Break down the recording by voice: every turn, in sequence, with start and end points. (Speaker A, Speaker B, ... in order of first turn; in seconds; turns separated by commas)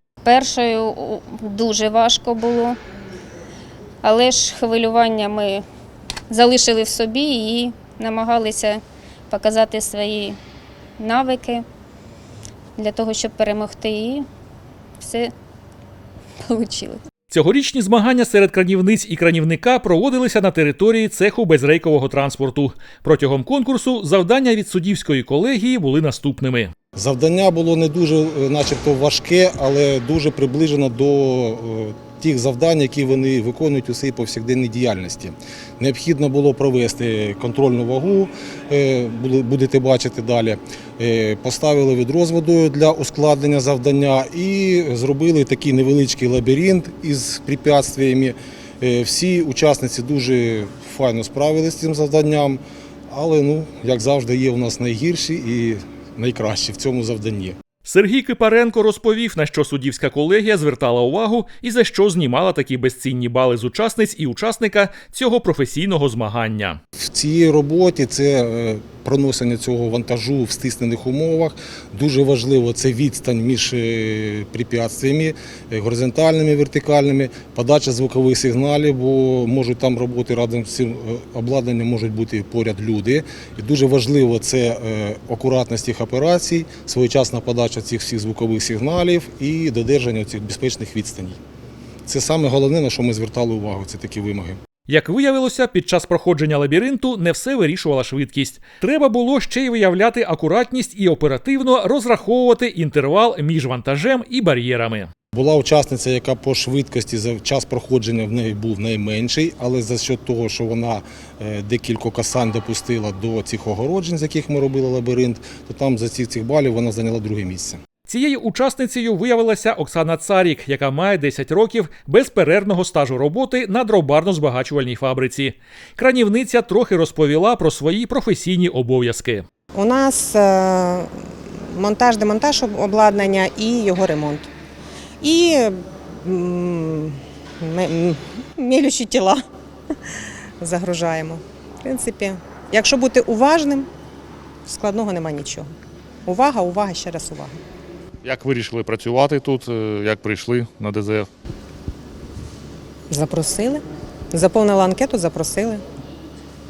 Speaker A: 0.2-2.8, Speaker A: 4.0-5.6, Speaker A: 6.3-10.4, Speaker A: 11.0-11.6, Speaker A: 12.8-14.2, Speaker A: 15.0-15.3, Speaker A: 16.5-17.0, Speaker B: 17.3-26.7, Speaker C: 26.9-57.5, Speaker B: 57.8-66.8, Speaker C: 67.0-91.4, Speaker C: 92.0-94.6, Speaker B: 94.9-105.1, Speaker C: 105.3-117.8, Speaker B: 118.1-129.4, Speaker D: 129.7-134.5, Speaker D: 135.2-139.4, Speaker D: 140.6-143.9, Speaker D: 144.6-145.7, Speaker D: 146.2-147.6, Speaker E: 148.2-151.3, Speaker D: 153.1-153.8, Speaker D: 154.3-155.8